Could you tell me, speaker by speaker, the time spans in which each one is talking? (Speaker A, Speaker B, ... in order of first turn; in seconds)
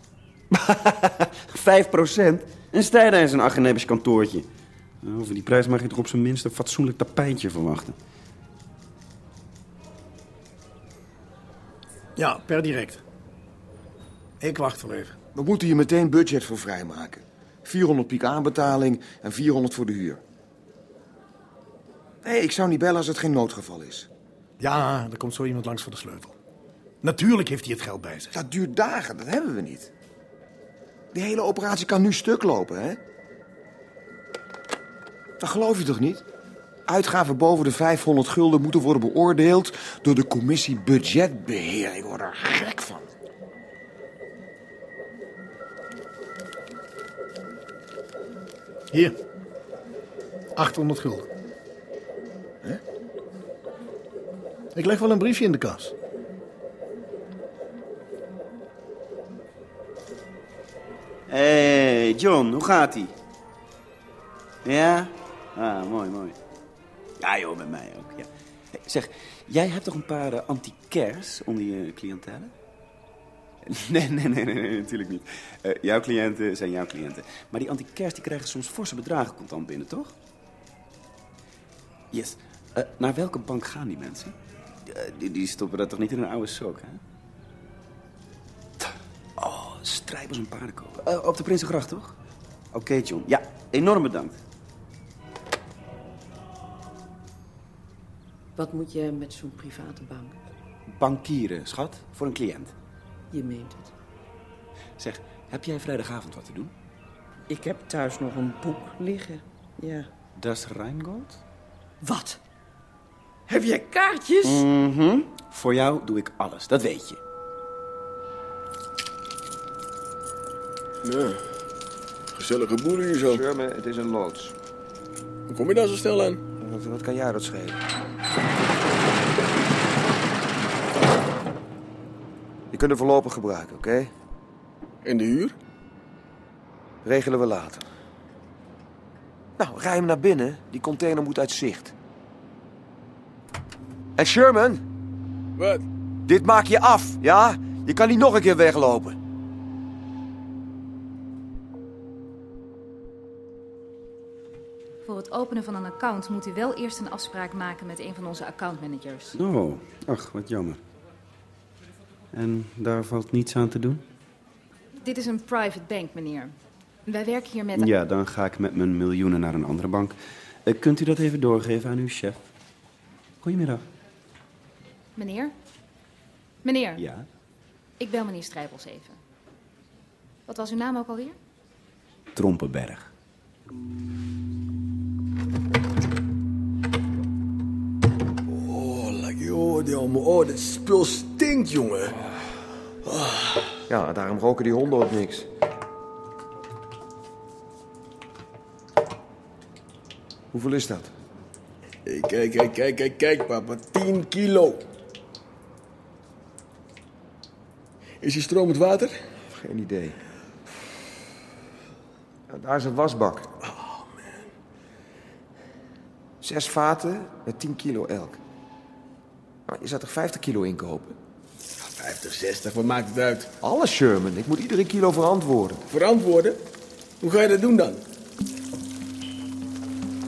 Speaker A: 0.5-4.5, 5.0-8.0, 61.3-63.1, 64.6-66.4, 67.2-72.5, 73.7-80.1, 82.1-84.3, 84.9-87.0, 89.4-92.1, 92.7-94.4, 100.9-102.7, 105.0-106.7, 110.4-111.4, 114.4-117.2, 159.3-160.8, 162.3-164.0, 167.7-172.4, 173.4-173.8, 177.0-177.3, 182.3-183.1
Speaker B: 12.2-13.0, 14.4-15.2, 24.6-26.3, 27.0-28.3, 50.6-51.3, 54.7-55.9
Speaker C: 15.3-20.2, 22.2-24.1, 28.3-29.9, 31.1-33.0, 35.4-36.2, 36.9-43.1, 123.2-124.5, 126.6-127.8, 132.7-134.1, 137.1-137.9, 139.6-141.9, 144.2-144.8, 146.3-149.2, 193.9-195.5, 200.5-201.1, 209.5-210.2, 212.5-213.5, 216.4-218.4, 219.7-221.2, 223.6-225.8
Speaker D: 98.6-100.2, 107.5-110.0, 113.8-114.1
Speaker E: 121.0-121.4, 122.3-123.4, 125.5-126.4, 135.0-135.6, 145.6-145.8, 188.5-192.2, 193.0-193.8, 202.1-204.9, 208.2-209.1, 213.6-214.5, 221.8-223.5, 225.9-226.6, 227.2-228.0
Speaker F: 155.0-159.4, 165.0-167.9, 175.2-175.6, 176.6-177.0, 178.0-179.2, 180.5-181.4